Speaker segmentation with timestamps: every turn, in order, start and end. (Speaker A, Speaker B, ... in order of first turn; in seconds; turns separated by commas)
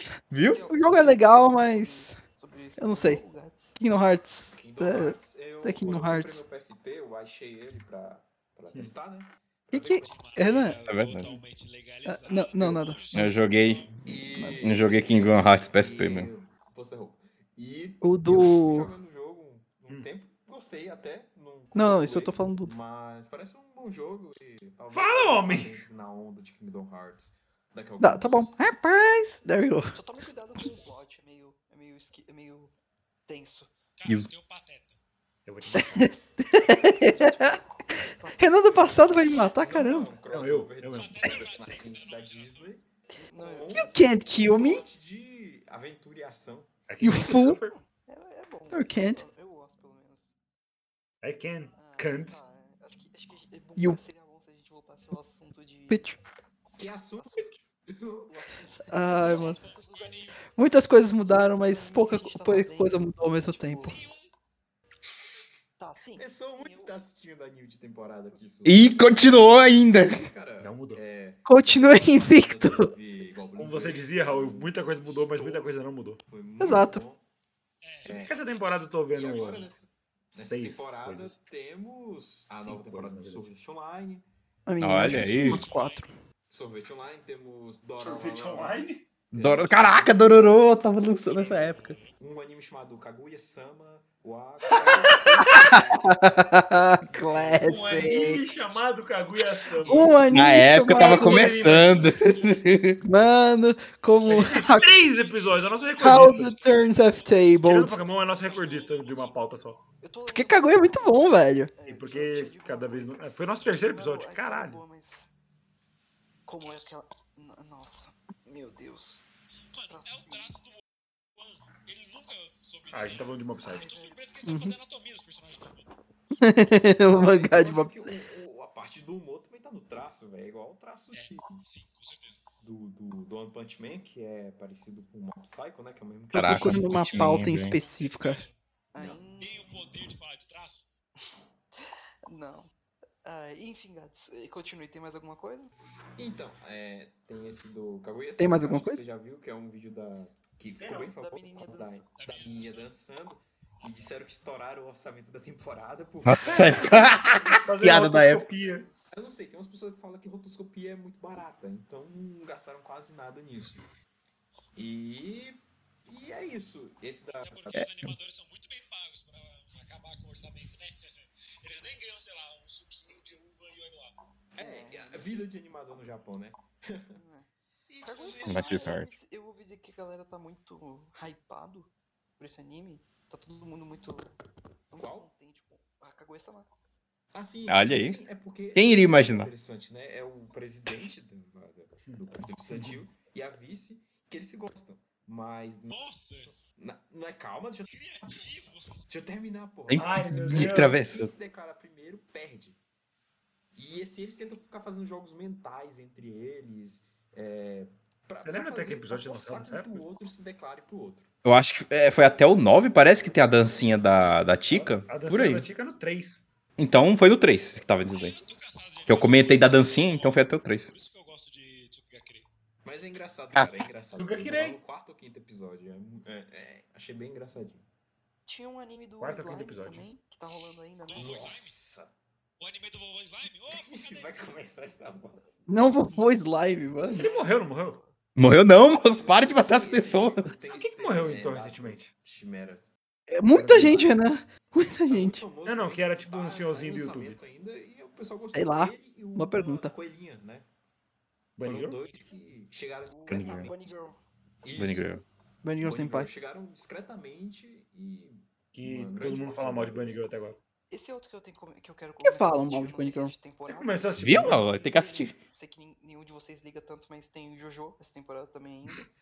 Speaker A: 0.3-0.6, Speaker B: 0.4-3.8, Speaker C: 0.7-2.2, Speaker C: 2.8-3.2, Speaker C: 3.8-6.4, Speaker D: 4.5-10.1, Speaker C: 9.7-10.8, Speaker E: 9.8-13.9, Speaker A: 10.9-11.3, Speaker C: 12.1-13.0, Speaker A: 13.1-13.9, Speaker D: 14.0-28.6, Speaker A: 14.6-16.3, Speaker C: 18.0-18.9, Speaker C: 21.7-22.7, Speaker F: 24.9-25.8, Speaker C: 28.0-29.9, Speaker B: 29.9-32.7, Speaker E: 30.6-31.0, Speaker B: 33.3-33.7, Speaker E: 34.0-35.0, Speaker F: 35.5-36.1, Speaker C: 35.7-37.6, Speaker B: 37.0-37.6, Speaker B: 38.2-39.5, Speaker C: 38.4-40.1, Speaker D: 39.6-46.7, Speaker F: 40.3-41.2, Speaker E: 40.9-42.8, Speaker B: 43.2-44.0, Speaker C: 43.7-44.8, Speaker F: 46.9-47.7, Speaker C: 47.0-47.6, Speaker B: 47.6-50.3, Speaker C: 48.7-49.2, Speaker F: 51.2-52.4, Speaker B: 51.8-56.0, Speaker C: 55.9-56.2, Speaker D: 56.8-58.3, Speaker B: 57.2-57.6, Speaker B: 58.3-64.1, Speaker C: 58.9-59.6, Speaker E: 59.2-60.5, Speaker C: 60.6-64.0, Speaker E: 63.9-64.3, Speaker B: 65.8-66.9, Speaker D: 66.2-69.5, Speaker A: 68.7-70.2, Speaker D: 70.0-75.7, Speaker F: 70.6-71.0, Speaker C: 71.5-72.9, Speaker F: 73.6-76.2, Speaker D: 76.3-77.2, Speaker C: 76.6-77.0, Speaker E: 77.8-79.7, Speaker D: 78.0-78.4, Speaker F: 78.1-79.7, Speaker D: 79.1-84.2, Speaker F: 80.4-81.4, Speaker F: 82.6-83.5, Speaker C: 84.7-86.1, Speaker A: 84.8-85.6, Speaker D: 85.0-85.6, Speaker E: 85.2-86.1, Speaker D: 86.5-90.7, Speaker F: 88.0-89.1, Speaker A: 89.4-92.0, Speaker D: 91.3-91.7, Speaker E: 91.4-92.1, Speaker D: 92.2-96.5, Speaker F: 94.7-95.8, Speaker C: 95.5-98.4, Speaker D: 97.0-98.3, Speaker F: 97.6-100.2, Speaker D: 99.7-100.3, Speaker C: 99.9-101.5, Speaker A: 100.3-103.0, Speaker F: 101.0-102.1, Speaker E: 101.8-102.5, Speaker C: 103.0-104.9, Speaker F: 104.2-106.5, Speaker E: 104.3-109.5, Speaker C: 106.0-107.9, Speaker F: 107.6-109.8, Speaker B: 110.0-115.3, Speaker C: 110.3-111.7, Speaker F: 111.9-114.8, Speaker B: 116.5-119.2, Speaker E: 116.6-117.0, Speaker E: 119.7-120.8, Speaker B: 119.9-120.5, Speaker E: 121.4-125.9, Speaker F: 122.9-123.9, Speaker B: 123.7-124.2, Speaker C: 124.5-124.8, Speaker B: 126.4-127.1, Speaker C: 126.4-128.1, Speaker D: 127.0-131.6, Speaker E: 131.1-132.4, Speaker D: 132.6-136.8, Speaker C: 136.3-138.4, Speaker A: 136.3-137.8, Speaker E: 137.7-138.6, Speaker B: 138.9-139.7, Speaker D: 138.9-139.2, Speaker E: 139.4-140.9, Speaker B: 141.8-142.7, Speaker B: 143.2-145.7, Speaker D: 146.2-157.2, Speaker C: 148.4-149.0, Speaker B: 151.1-152.1, Speaker E: 152.2-152.9, Speaker A: 156.2-158.4, Speaker F: 156.4-157.0, Speaker F: 157.6-158.9, Speaker B: 158.5-159.3, Speaker D: 159.1-163.9, Speaker D: 164.8-167.6, Speaker E: 167.4-174.1, Speaker A: 167.7-168.2, Speaker D: 174.6-177.2, Speaker B: 174.6-175.3, Speaker B: 177.2-177.5, Speaker E: 177.9-179.0, Speaker B: 178.0-184.3, Speaker A: 178.5-179.1, Speaker B: 184.9-186.7, Speaker D: 184.9-185.3, Speaker D: 187.3-196.0, Speaker A: 187.7-188.2, Speaker A: 188.8-189.5, Speaker F: 192.0-193.0, Speaker E: 195.9-196.6, Speaker D: 196.8-197.9, Speaker E: 197.9-199.1, Speaker D: 199.1-202.8, Speaker A: 199.9-201.3, Speaker F: 199.9-201.0, Speaker D: 203.8-211.3, Speaker F: 208.4-210.1, Speaker A: 211.4-215.7, Speaker D: 212.1-214.4, Speaker F: 214.7-216.4, Speaker A: 216.8-218.4, Speaker E: 218.1-222.5, Speaker A: 219.1-220.9, Speaker D: 222.8-227.8, Speaker A: 223.5-223.8, Speaker F: 224.2-224.8, Speaker B: 228.5-231.3, Speaker F: 229.2-230.1, Speaker E: 231.1-231.8, Speaker D: 231.1-232.1, Speaker E: 232.6-234.4, Speaker D: 233.7-235.6, Speaker C: 235.7-237.3, Speaker B: 236.1-238.2, Speaker F: 237.2-238.0, Speaker A: 238.4-240.5, Speaker D: 239.1-242.9, Speaker F: 240.7-242.1, Speaker C: 243.3-245.4, Speaker D: 243.6-244.1, Speaker D: 245.1-250.7, Speaker F: 245.7-247.4, Speaker C: 248.5-249.9, Speaker F: 251.6-252.0, Speaker D: 251.6-253.7, Speaker E: 252.1-252.3, Speaker B: 253.1-254.2, Speaker A: 253.3-253.7, Speaker D: 254.6-255.1, Speaker A: 254.8-255.2, Speaker C: 255.6-256.3, Speaker D: 255.8-260.4, Speaker F: 258.7-260.6, Speaker B: 260.9-269.1, Speaker C: 262.2-263.3, Speaker F: 263.7-264.7, Speaker A: 264.2-265.4